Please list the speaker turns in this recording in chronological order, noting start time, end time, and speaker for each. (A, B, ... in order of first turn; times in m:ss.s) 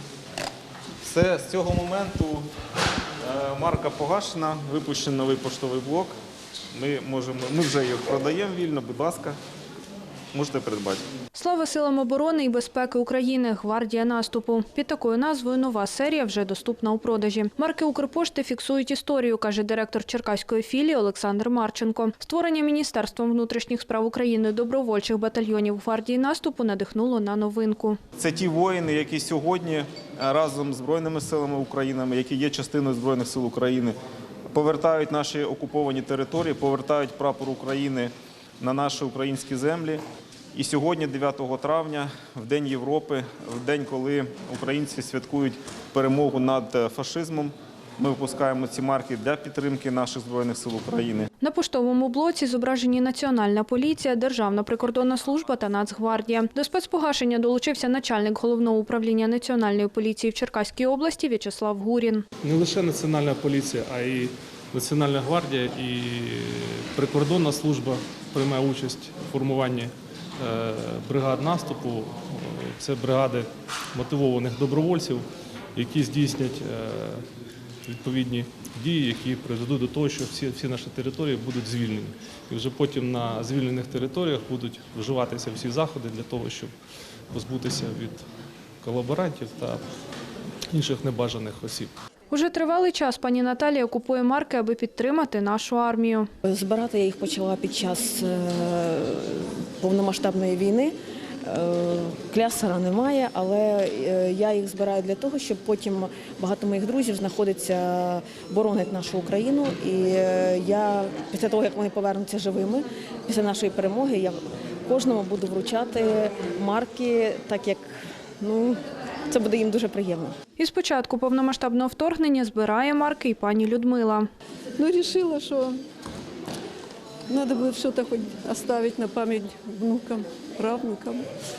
0:01.0-0:02.5 A
0:03.2-0:06.1 A
0:06.7-0:09.4 A
0:10.3-0:11.0 A
0:11.3-0:28.0 B
0:28.2-0:34.0 A
0:34.5-0:40.0 A
0:40.5-0:51.3 A
0:51.4-1:02.2 B
1:02.4-1:17.2 C
1:17.8-1:26.7 C
1:27.3-1:28.2 C
1:28.8-1:29.8 C
1:30.7-1:31.9 C
1:32.3-1:36.2 B
1:36.4-1:57.8 D
1:58.4-2:00.3 D
2:00.6-2:04.2 B
2:04.8-2:05.8 E
2:07.3-2:11.3 E